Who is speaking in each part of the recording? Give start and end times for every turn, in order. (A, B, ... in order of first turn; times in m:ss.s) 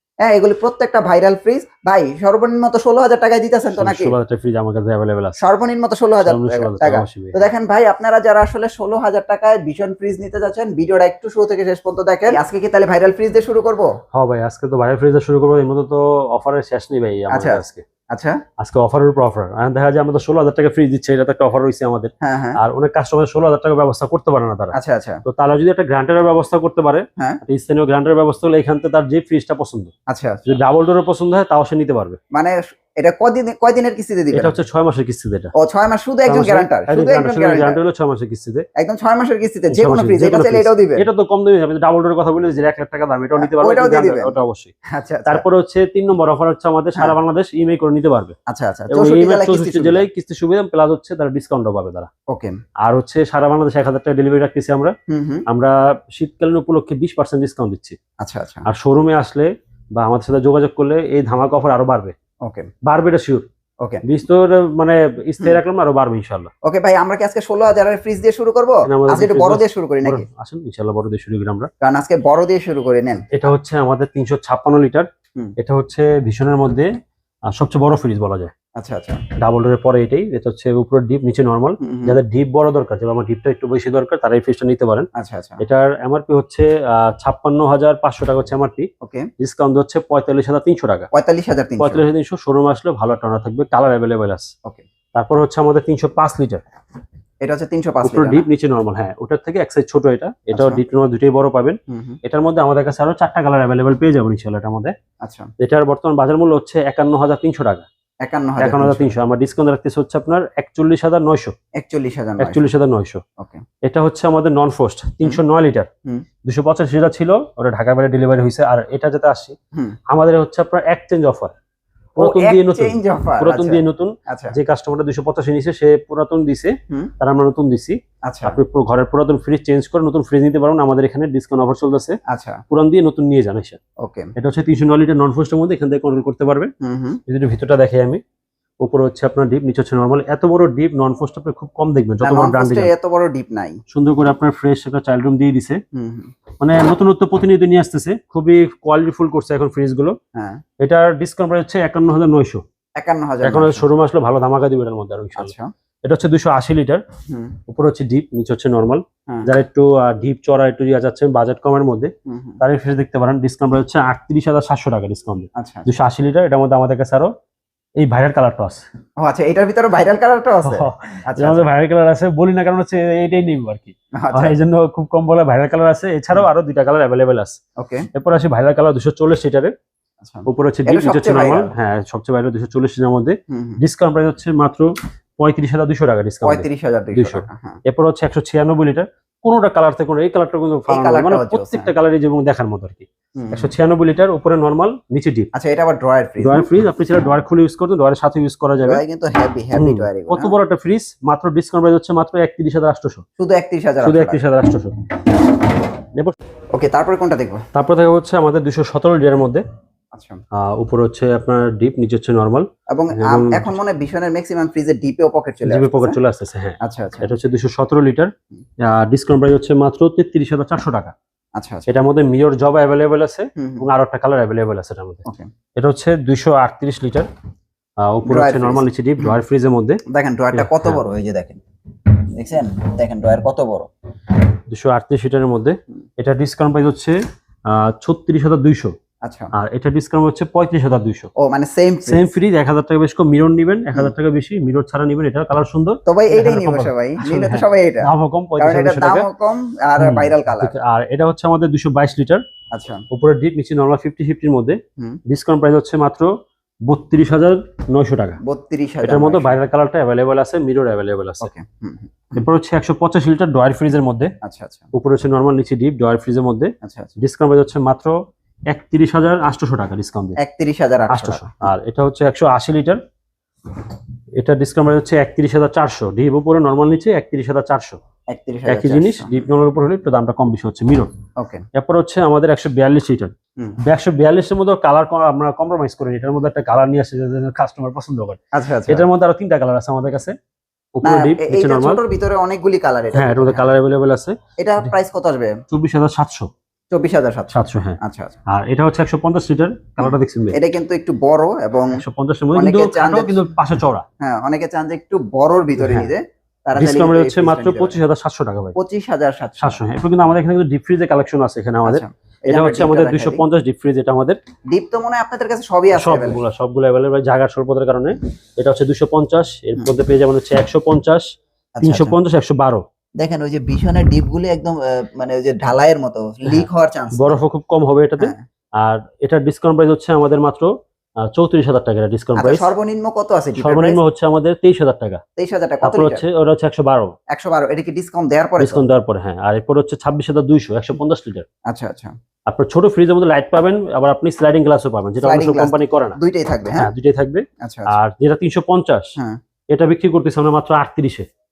0:00.2-0:04.1 A
0:03.8-0:05.4 B
0:05.4-0:13.9 A
0:06.2-0:07.4 B
0:14.1-0:17.8 B
0:17.3-0:18.4 A
0:18.6-0:29.9 B
0:22.2-0:22.6 A
0:24.7-0:25.2 A
0:30.1-0:30.5 A
0:30.5-0:32.2 B
0:32.3-0:34.6 A
0:34.3-0:35.5 B
0:35.6-0:37.8 A
0:36.3-0:38.6 B
0:38.8-0:41.1 A
0:39.7-0:44.7 B
0:43.4-0:44.4 A
0:44.9-0:45.4 A
0:45.2-0:48.4 B
0:48.5-0:50.1 A
0:48.9-0:52.1 B
0:52.3-0:52.6 A
0:52.8-0:54.9 B
0:55.1-0:55.4 A
0:55.5-0:58.0 B
0:58.2-0:58.7 A
0:58.7-1:02.1 B
1:02.4-1:02.7 A
1:02.8-1:03.4 B
1:04.0-1:06.5 B
1:06.6-1:10.3 A
1:08.9-1:11.7 B
1:11.8-1:13.5 A
1:13.3-1:16.9 B
1:17.5-1:18.5 B
1:18.8-1:19.2 A
1:19.4-1:25.1 B
1:21.8-1:22.2 A
1:25.2-1:25.6 A
1:25.6-1:31.1 B
1:29.0-1:29.3 A
1:31.1-1:32.0 A
1:31.8-1:34.5 B
1:35.2-1:36.6 B
1:37.4-1:38.5 A
1:38.0-1:44.9 B
1:40.5-1:40.8 A
1:41.9-1:42.2 A
1:45.2-1:45.5 A
1:45.6-1:47.9 B
1:48.2-1:49.1 A
1:48.6-1:51.5 B
1:51.8-1:52.6 A
1:52.4-1:53.2 B
1:53.8-1:55.9 B
1:56.4-1:59.6 B
2:00.1-2:01.5 B
2:02.2-2:12.2 B
2:02.2-2:04.6 A
2:08.3-2:08.6 A
2:12.3-2:12.6 A
2:12.7-2:13.8 B
2:14.0-2:14.3 A
2:14.4-2:16.7 B
2:16.8-2:17.2 A
2:17.3-2:18.2 B
2:18.8-2:22.9 B
2:22.2-2:23.8 A
2:23.9-2:25.8 B
2:25.9-2:26.3 A
2:26.6-2:30.2 B
2:30.4-2:30.6 A
2:30.8-2:32.6 B
2:33.0-2:33.9 A
2:33.4-2:37.0 B
2:35.4-2:35.7 A
2:37.3-2:37.6 A
2:37.7-2:47.3 B
2:42.3-2:42.6 A
2:45.6-2:45.9 A
2:48.0-2:48.8 B
2:49.2-2:51.7 A
2:50.6-2:57.6 B
2:54.2-2:54.6 A
2:57.8-2:58.1 A
2:58.1-2:59.7 B
3:00.2-3:01.7 A
3:00.5-3:15.5 B
3:03.5-3:03.8 A
3:06.4-3:07.8 A
3:10.9-3:11.9 A
3:13.4-3:13.7 A
3:15.5-3:16.7 A
3:16.4-3:19.0 B
3:18.8-3:20.5 A
3:19.8-3:23.2 B
3:23.4-3:24.4 A
3:24.0-3:25.0 B
3:26.7-3:27.6 A
3:27.7-3:29.6 B
3:30.1-3:30.4 A
3:30.5-3:33.8 B
3:32.9-3:36.2 A
3:35.6-3:41.1 B
3:36.8-3:37.3 A
3:41.6-3:41.9 A
3:41.9-3:45.3 B
3:43.6-3:43.9 A
3:45.8-3:47.3 B
3:48.0-3:50.0 B
3:48.3-3:49.4 A
3:50.1-3:51.6 A
3:50.5-3:51.0 B
3:52.3-3:53.9 A
3:54.7-3:59.0 B
3:59.2-3:59.5 A
3:59.5-4:01.3 B
4:01.4-4:02.3 A
4:02.1-4:09.3 B
4:06.1-4:10.8 A
4:10.0-4:12.4 B
4:12.7-4:13.0 A
4:13.1-4:16.3 B
4:16.9-4:18.4 B
4:18.4-4:19.6 A
4:19.0-4:21.5 B
4:21.4-4:22.4 A
4:22.3-4:24.3 B
4:24.4-4:24.9 A
4:24.9-4:28.2 B
4:26.8-4:27.1 A
4:28.7-4:30.4 B
4:30.4-4:31.7 A
4:31.1-4:33.0 B
4:34.4-4:38.0 B
4:38.3-4:39.4 A
4:38.7-4:41.1 B
4:41.4-4:41.6 A
4:41.7-4:43.3 B
4:43.9-4:50.4 B
4:48.5-4:49.1 A
4:51.0-4:52.0 B
4:51.0-4:53.7 A
4:53.1-4:54.9 B
4:54.6-4:55.6 A
4:55.7-4:56.5 B
4:56.9-4:58.4 A
4:57.5-5:00.6 B
5:00.0-5:02.0 A
5:02.0-5:04.0 B
5:02.5-5:03.5 A
5:04.2-5:08.0 A
5:05.8-5:06.1 B
5:06.8-5:08.8 B
5:08.8-5:09.8 A
5:09.6-5:14.4 B
5:11.8-5:13.4 A
5:14.7-5:16.4 A
5:16.0-5:21.3 B
5:21.8-5:22.2 A
5:21.8-5:22.8 B
5:23.2-5:27.4 A
5:26.5-5:30.7 B
5:28.2-5:28.4 A
5:31.2-5:32.7 B
5:32.4-5:34.0 A
5:33.6-5:35.2 B
5:35.4-5:36.2 A
5:35.8-5:37.1 B
5:37.3-5:38.8 A
5:38.6-5:41.5 B
5:41.7-5:42.1 A
5:42.5-5:46.2 B
5:45.2-5:46.9 A
5:46.8-5:49.2 B
5:47.6-5:47.9 A
5:49.7-5:51.3 B